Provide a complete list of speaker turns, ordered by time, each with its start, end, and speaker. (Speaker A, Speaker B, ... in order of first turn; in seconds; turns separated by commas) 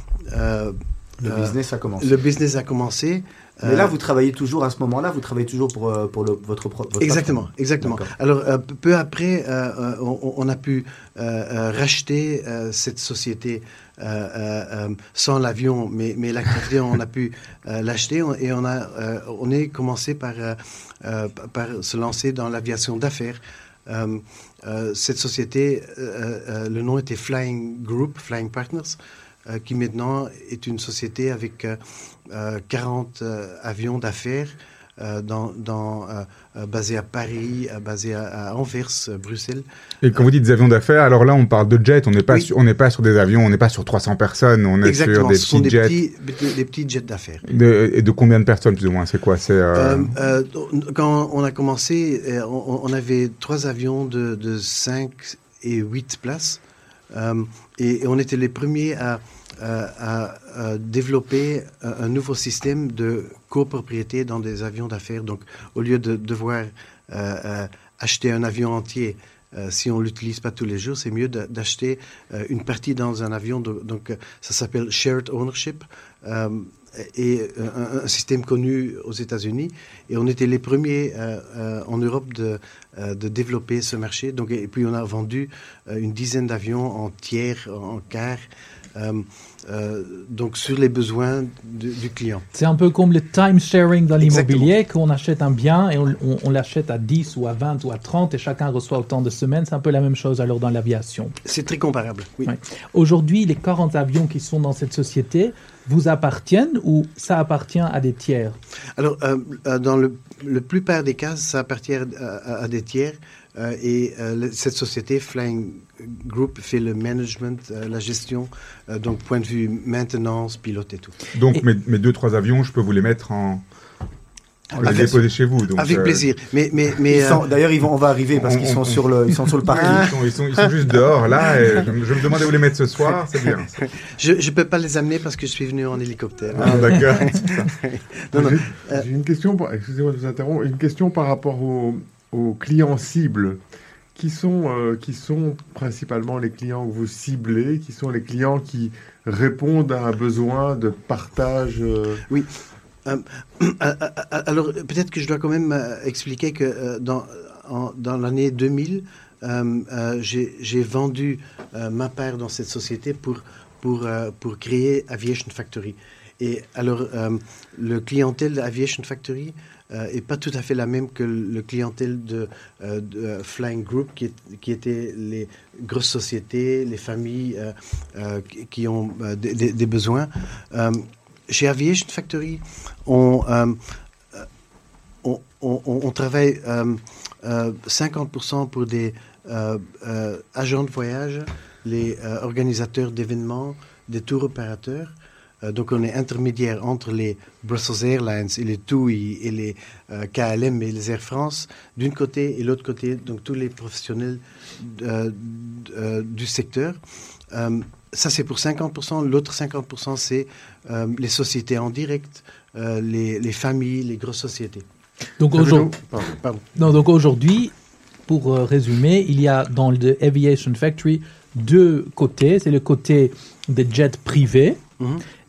Speaker A: 0.3-3.9, Speaker B: 1.2-2.2, Speaker B: 3.6-8.1, Speaker A: 7.0-39.6, Speaker C: 40.0-46.0, Speaker A: 44.8-47.4, Speaker C: 47.5-50.1, Speaker A: 49.8-56.6, Speaker A: 57.1-92.5, Speaker D: 92.5-101.3, Speaker A: 94.2-94.7, Speaker A: 101.5-102.5, Speaker D: 102.5-108.6, Speaker A: 109.0-121.2, Speaker C: 121.3-123.6, Speaker A: 124.7-127.4, Speaker C: 124.8-126.2, Speaker B: 124.8-125.1, Speaker B: 127.1-130.1, Speaker C: 128.4-133.8, Speaker A: 129.7-131.8, Speaker A: 133.0-139.1, Speaker C: 136.5-137.7, Speaker E: 138.3-143.6, Speaker E: 144.2-152.2, Speaker A: 153.1-183.8, Speaker A: 185.2-207.0, Speaker A: 207.5-214.8, Speaker D: 215.4-215.9, Speaker E: 215.5-216.3, Speaker A: 216.2-216.7, Speaker D: 216.8-217.7, Speaker D: 218.3-224.8